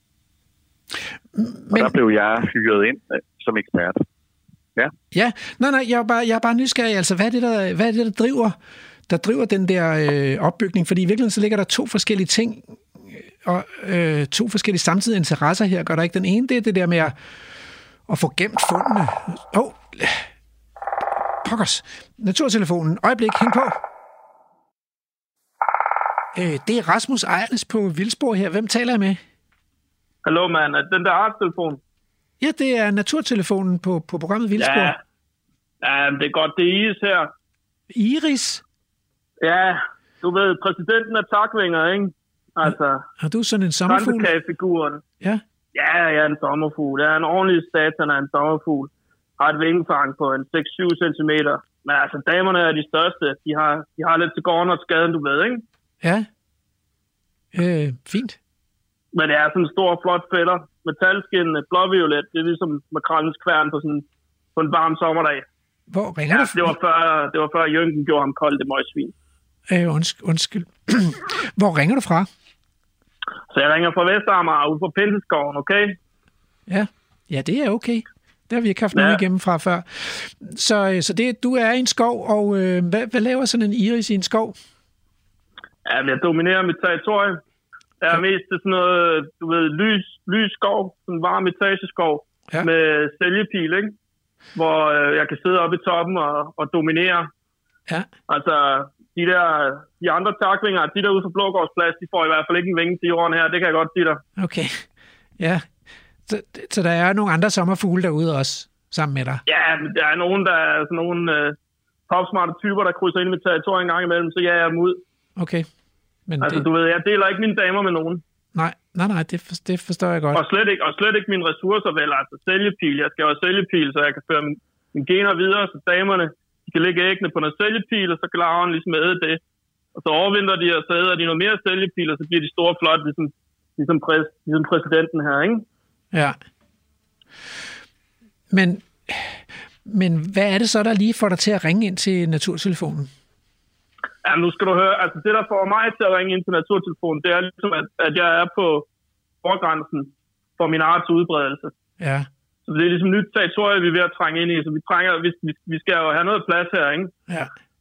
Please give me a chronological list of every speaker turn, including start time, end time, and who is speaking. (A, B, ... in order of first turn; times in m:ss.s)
0:01.3-0:01.9 A
0:01.7-0:04.0 B
0:05.1-0:08.6 A
0:09.1-0:17.1 A
0:18.1-0:20.3 A
0:21.4-0:23.8 A
0:26.3-0:29.2 A
0:30.2-0:31.8 C
0:32.4-0:35.0 A
0:34.6-0:35.0 C
0:35.8-0:37.3 C
0:37.9-0:38.6 A
0:39.4-0:43.0 C
0:43.2-0:44.3 A
0:43.9-0:45.0 C
0:45.7-0:55.6 C
0:56.0-0:56.3 A
0:57.5-0:58.4 A
0:59.1-1:05.4 C
1:05.9-1:06.7 A
1:06.3-1:09.1 C
1:09.7-1:12.3 A
1:13.5-1:16.0 C
1:16.7-1:24.6 A
1:18.9-1:19.2 C
1:25.8-1:27.4 C
1:28.0-1:33.9 C
1:34.5-1:37.3 C
1:38.3-1:44.2 C
1:44.4-1:44.8 A
1:45.4-1:45.7 A
1:46.3-1:49.4 A
1:49.4-1:51.6 C
1:52.1-1:55.0 C
1:55.4-1:55.7 A
1:56.3-1:56.6 A
1:56.4-1:58.2 C
1:58.5-2:00.4 A
2:00.3-2:09.4 C
2:09.9-2:15.6 C
2:18.5-2:23.1 A
2:24.2-2:28.9 C
2:29.4-2:31.7 C
2:32.0-2:32.3 A
2:32.7-2:37.1 C